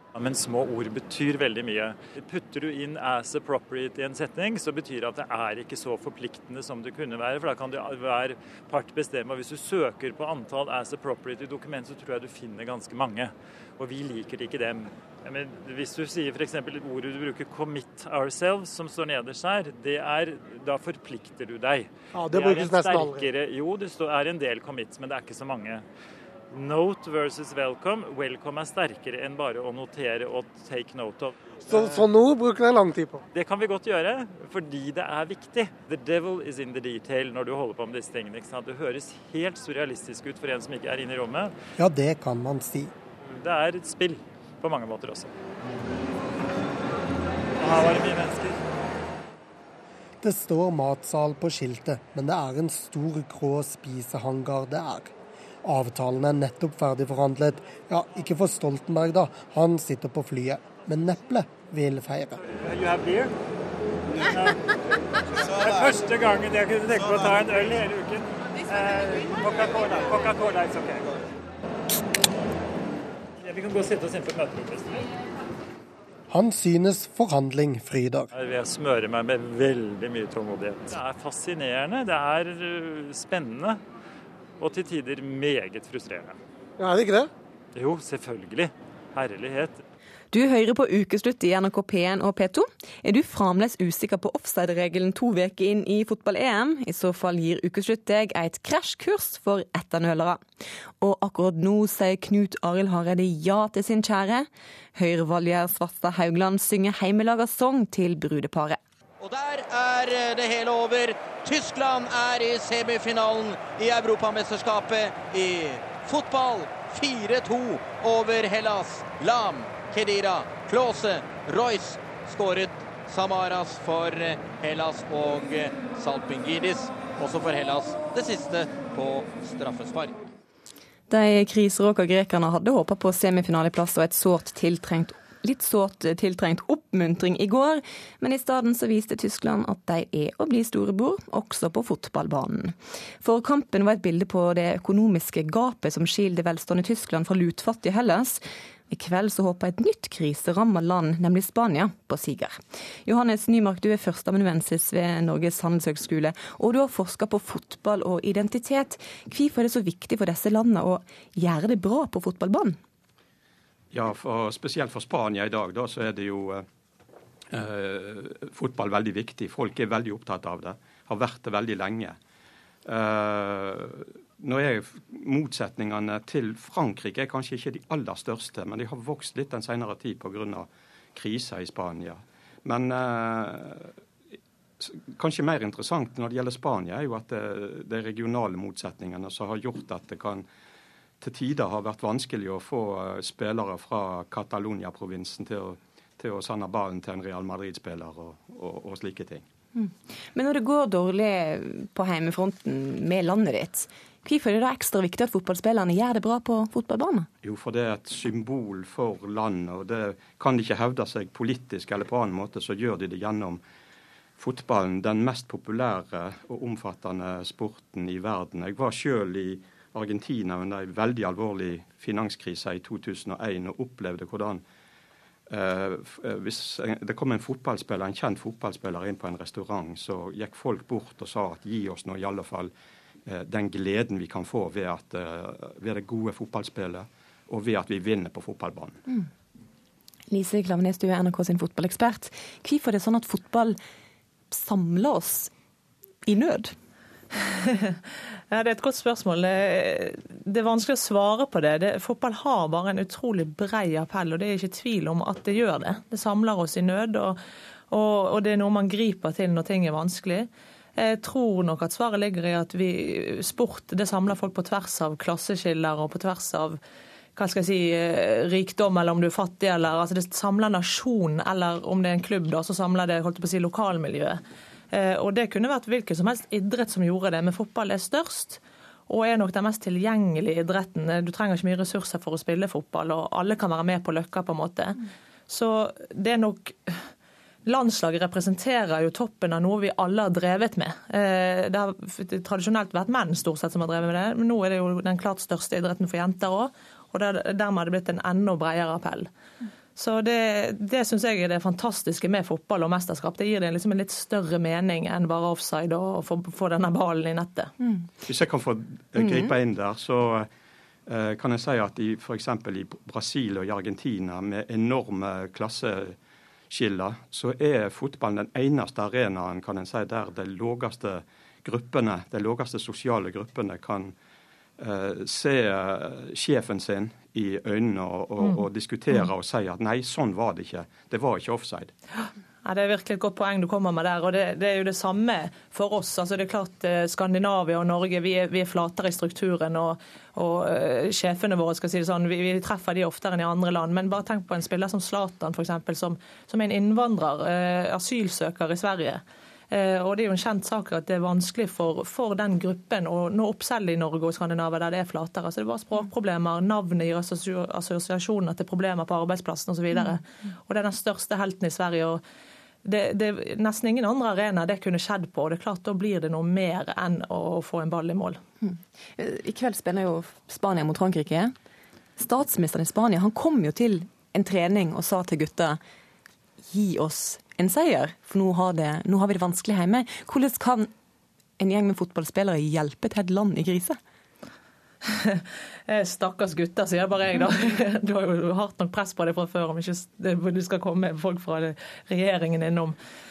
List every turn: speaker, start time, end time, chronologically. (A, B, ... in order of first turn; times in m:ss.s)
0:00.1-0:25.8 A
0:22.1-0:23.3 B
0:26.5-0:32.1 A
0:31.7-0:33.2 B
0:33.3-0:41.5 A
0:41.8-0:42.9 B
0:43.2-0:45.3 A
0:47.6-0:48.6 A
0:50.2-1:02.4 B
1:02.4-1:03.3 A
1:04.2-1:04.6 A
1:05.4-1:11.1 A
1:13.4-1:15.0 A
1:16.3-1:18.3 B
1:18.3-1:23.8 A
1:24.6-1:26.4 A
1:27.0-1:27.2 B
1:27.7-1:29.8 A
1:30.3-1:40.4 C
1:41.0-1:48.8 C
1:49.2-2:10.2 D
2:11.1-2:42.8 C
2:43.9-2:46.6 E
2:47.5-2:52.2 E
2:52.8-3:04.0 E
3:04.8-3:10.4 E
3:11.2-3:19.4 E
3:19.7-3:27.3 C
3:27.4-3:33.6 E
3:34.4-3:44.6 E
3:45.5-3:52.7 E
3:53.3-3:59.0 E
4:00.3-4:03.8 C
4:04.5-4:05.5 C
4:06.2-4:06.7 C
4:07.4-4:08.0 F
4:08.5-4:17.4 F
4:17.9-4:26.8 F
4:27.4-4:34.4 F
4:34.9-4:47.0 F
4:47.6-4:59.3 F
5:00.0-5:07.7 F
5:07.8-5:08.1 C
5:08.2-5:10.5 E
5:09.2-5:09.5 C
5:11.1-5:16.2 E
5:16.7-5:24.1 E
5:24.8-5:31.9 E
5:32.2-6:02.2 F
6:02.8-6:08.4 F
6:08.6-6:11.5 C
6:12.2-6:15.8 C
6:16.7-6:20.9 C
6:21.6-6:24.0 C
6:25.1-6:33.0 F